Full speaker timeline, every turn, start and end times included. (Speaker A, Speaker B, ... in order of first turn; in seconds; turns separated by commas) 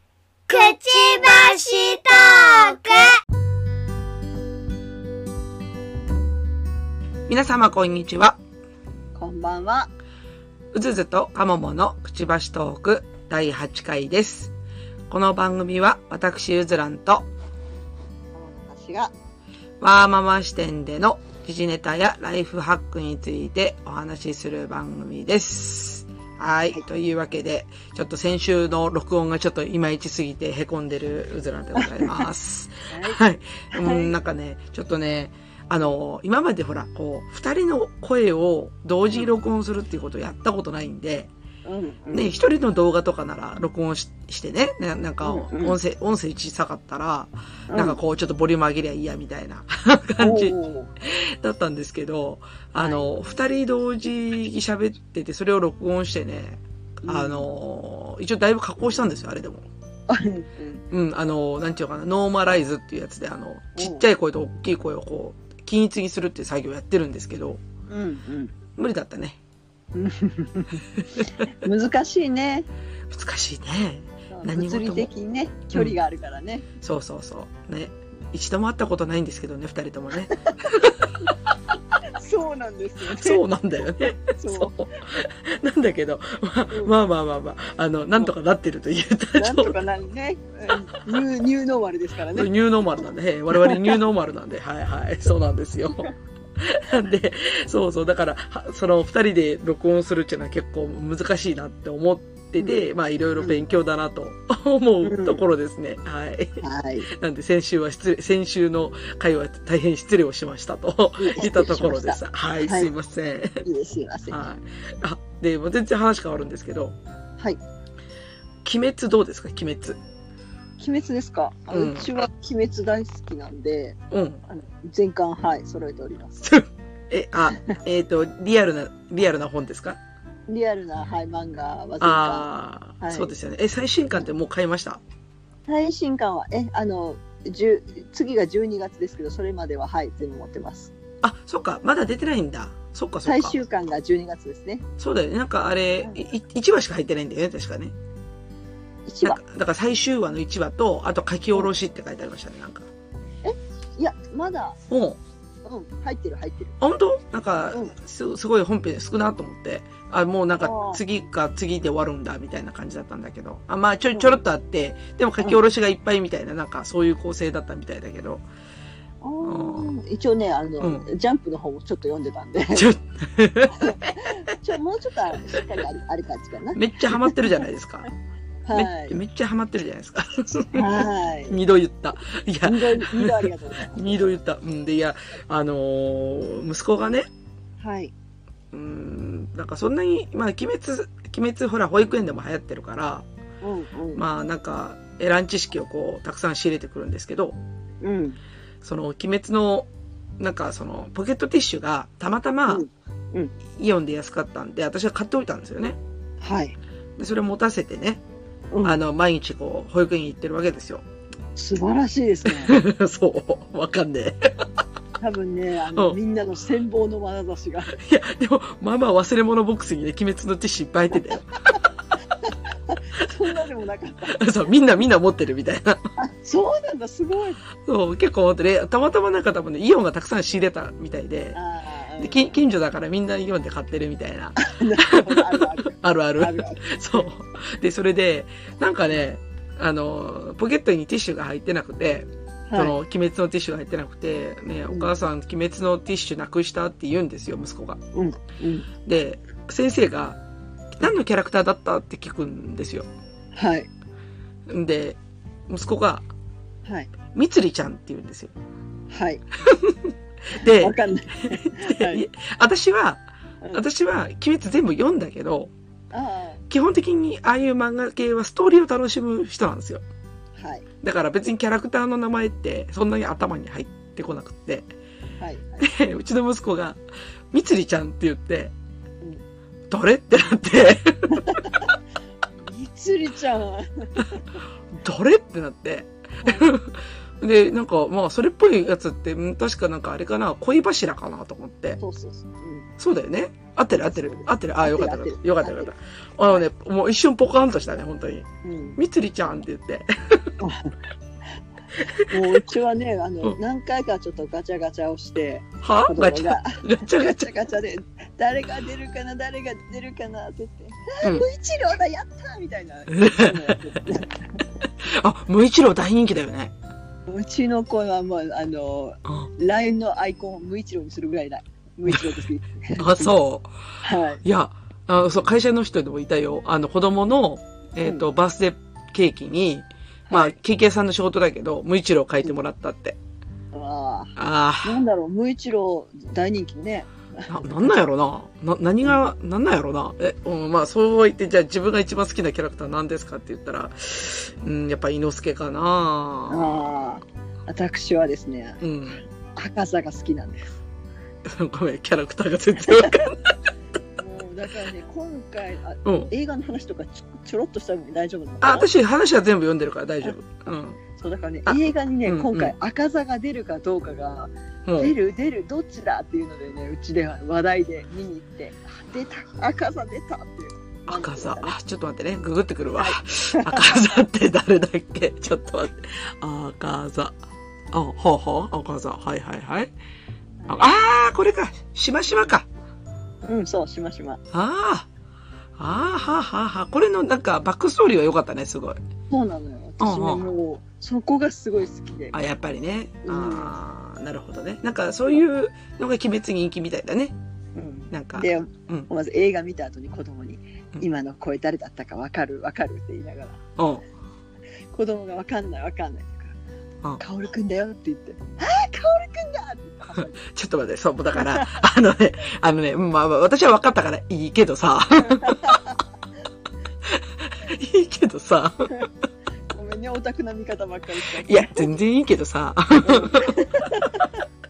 Speaker A: 0.5-3.2, Speaker B: 7.3-8.4, Speaker C: 9.2-9.9, Speaker B: 10.7-14.5, Speaker B: 15.1-17.3, Speaker C: 18.3-19.1, Speaker B: 19.8-41.3, Speaker C: 31.8-32.3, Speaker C: 32.9-33.2, Speaker C: 33.7-34.1, Speaker C: 41.7-42.3, Speaker B: 42.1-59.7, Speaker C: 45.2-45.8, Speaker C: 47.7-48.0, Speaker C: 50.2-50.9, Speaker C: 52.8-53.1, Speaker C: 57.1-57.5, Speaker C: 60.1-60.8, Speaker B: 60.9-67.6, Speaker C: 63.8-64.1, Speaker C: 67.9-68.5, Speaker B: 68.8-69.4, Speaker C: 69.9-70.9, Speaker B: 71.0-71.5, Speaker C: 71.5-72.7, Speaker B: 73.1-75.1, Speaker C: 74.3-76.7, Speaker B: 76.8-81.1, Speaker C: 80.3-81.3, Speaker C: 82.1-83.5, Speaker B: 83.1-89.8, Speaker C: 84.3-85.0, Speaker C: 89.4-92.5, Speaker B: 92.3-113.7, Speaker C: 93.5-94.0, Speaker C: 105.0-105.4, Speaker C: 106.6-107.1, Speaker C: 111.2-112.9, Speaker C: 113.6-114.4, Speaker B: 114.3-117.0, Speaker B: 118.6-120.0, Speaker C: 120.8-124.0, Speaker B: 121.7-122.1, Speaker B: 124.1-124.4, Speaker C: 124.5-126.5, Speaker B: 126.4-130.0, Speaker C: 130.5-132.5, Speaker B: 132.0-135.0, Speaker C: 133.0-133.3, Speaker C: 135.7-140.9, Speaker B: 141.2-143.6, Speaker C: 143.2-144.8, Speaker B: 145.0-147.9, Speaker C: 149.1-149.4, Speaker B: 149.2-152.9, Speaker C: 153.4-154.8, Speaker B: 154.9-155.2, Speaker C: 155.7-156.8, Speaker B: 156.8-168.4, Speaker C: 160.6-161.0, Speaker C: 169.2-172.9, Speaker B: 169.4-169.9, Speaker B: 170.8-171.1, Speaker B: 172.7-174.4, Speaker C: 173.8-177.6, Speaker B: 176.7-178.1, Speaker C: 178.7-179.2, Speaker B: 178.7-187.3, Speaker C: 180.7-181.6, Speaker C: 182.6-184.3, Speaker C: 187.8-188.1, Speaker B: 188.7-193.3, Speaker C: 193.6-194.2, Speaker B: 194.2-197.6, Speaker C: 198.0-198.4, Speaker B: 198.8-202.8, Speaker C: 202.7-203.5, Speaker B: 203.7-206.0, Speaker C: 206.4-206.8, Speaker B: 207.2-208.2, Speaker C: 208.7-209.0, Speaker B: 208.8-211.1, Speaker C: 211.6-212.8, Speaker B: 212.5-214.6, Speaker C: 215.2-218.0, Speaker B: 217.9-221.5, Speaker C: 222.4-224.4, Speaker B: 224.3-226.0, Speaker C: 226.2-227.6, Speaker B: 227.8-231.6, Speaker C: 231.5-232.6, Speaker B: 232.2-248.0, Speaker C: 234.6-237.0, Speaker C: 242.7-243.0, Speaker C: 248.1-248.9, Speaker B: 249.1-250.4, Speaker B: 250.9-253.1, Speaker C: 253.5-253.9, Speaker B: 254.7-255.2, Speaker B: 255.7-256.3, Speaker C: 256.9-257.1, Speaker B: 257.3-258.5, Speaker C: 259.1-259.4, Speaker B: 259.6-261.0, Speaker C: 260.6-262.2, Speaker B: 261.5-263.2, Speaker B: 263.7-265.7, Speaker C: 266.1-266.6, Speaker B: 266.7-270.0, Speaker C: 270.6-270.9, Speaker B: 271.0-274.9, Speaker C: 275.4-275.9, Speaker B: 275.8-277.0, Speaker B: 277.5-278.7, Speaker B: 279.9-281.7, Speaker C: 281.3-281.9, Speaker C: 282.6-284.6, Speaker B: 284.9-292.0, Speaker C: 286.4-286.7, Speaker C: 292.0-292.9, Speaker B: 293.0-300.5, Speaker C: 294.0-295.9, Speaker C: 298.6-299.0, Speaker C: 300.6-301.0, Speaker B: 302.0-302.6, Speaker C: 302.3-314.6, Speaker B: 305.8-307.5, Speaker B: 313.1-313.9, Speaker B: 315.0-316.7, Speaker C: 317.3-323.3, Speaker B: 322.1-322.4, Speaker B: 323.0-323.7, Speaker C: 324.0-324.4, Speaker B: 324.4-333.2, Speaker C: 330.3-330.6, Speaker C: 333.7-337.9, Speaker B: 334.4-335.0, Speaker B: 337.5-346.8, Speaker C: 346.5-348.8, Speaker B: 348.8-349.2, Speaker C: 349.5-350.7, Speaker B: 351.4-353.5, Speaker C: 352.9-353.3, Speaker C: 354.2-358.9, Speaker B: 356.1-356.3, Speaker B: 358.6-361.0, Speaker C: 361.1-371.8, Speaker B: 361.7-362.7, Speaker B: 364.9-365.1, Speaker B: 371.1-377.4, Speaker C: 373.0-374.1, Speaker B: 377.9-379.9, Speaker C: 380.6-380.9, Speaker B: 380.7-382.7, Speaker C: 383.4-384.4, Speaker B: 384.5-385.1, Speaker B: 385.8-389.0, Speaker C: 389.3-392.4, Speaker B: 390.0-390.4, Speaker B: 392.3-397.4, Speaker C: 393.2-393.7, Speaker C: 397.8-403.6, Speaker B: 398.1-399.1, Speaker B: 403.8-404.0, Speaker C: 404.9-406.6, Speaker C: 407.2-410.4, Speaker B: 410.1-415.8, Speaker C: 411.4-411.8, Speaker C: 415.3-416.0, Speaker B: 417.1-419.1, Speaker C: 419.7-421.9, Speaker B: 421.4-424.2, Speaker C: 423.0-424.4